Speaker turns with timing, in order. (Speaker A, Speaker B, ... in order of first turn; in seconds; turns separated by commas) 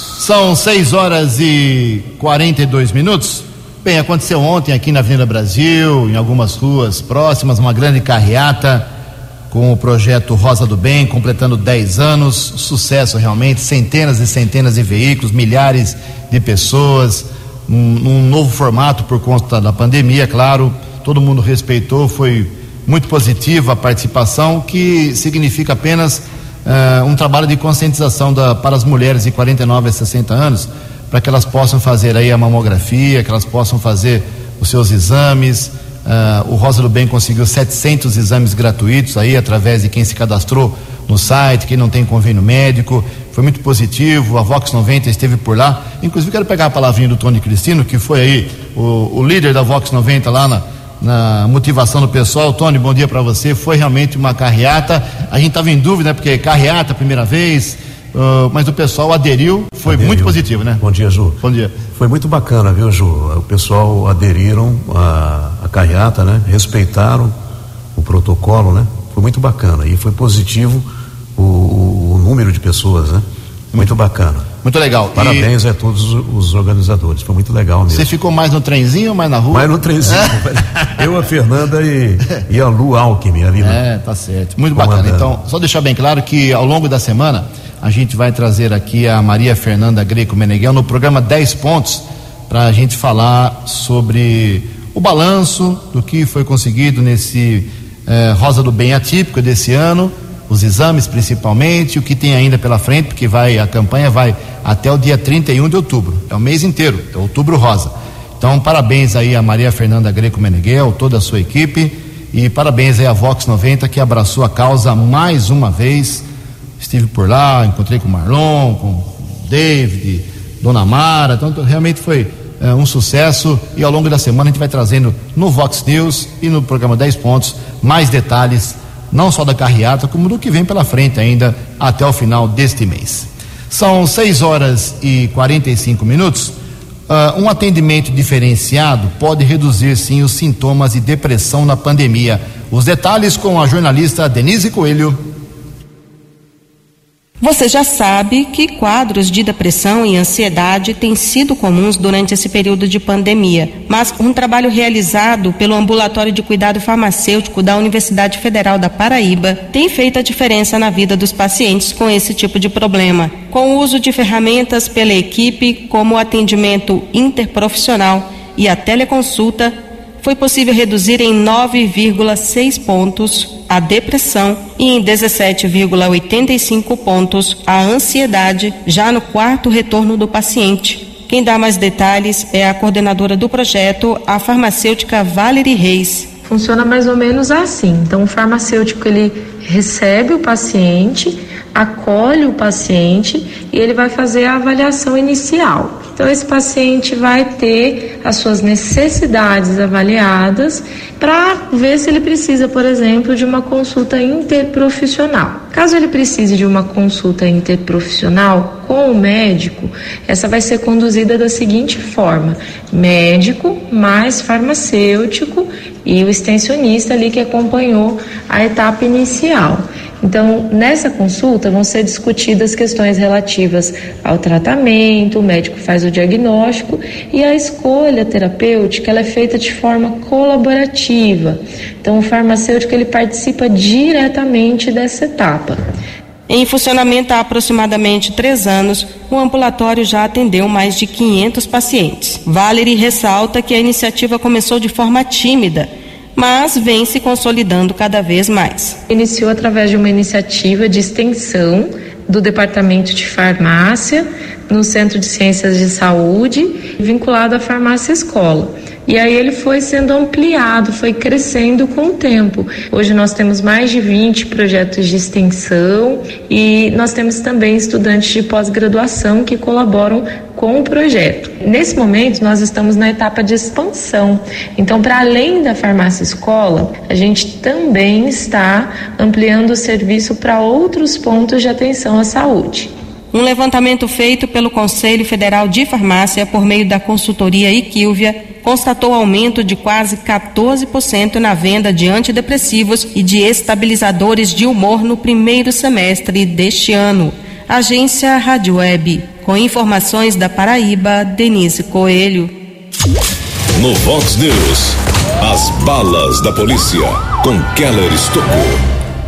Speaker A: 0.2-8.9, Speaker A: 9.5-60.8, Speaker B: 59.9-61.4, Speaker A: 61.4-61.8, Speaker B: 62.0-67.3, Speaker B: 68.0-73.2, Speaker B: 73.8-74.5, Speaker A: 74.6-75.5, Speaker B: 75.2-78.1, Speaker A: 77.9-81.1, Speaker B: 79.5-83.8, Speaker A: 83.6-116.3, Speaker B: 84.7-85.3, Speaker A: 116.8-136.6, Speaker A: 137.1-145.2, Speaker C: 147.4-186.3, Speaker D: 186.4-235.8, Speaker C: 236.5-249.0, Speaker D: 249.1-282.9, Speaker C: 283.3-302.5, Speaker E: 303.8-308.8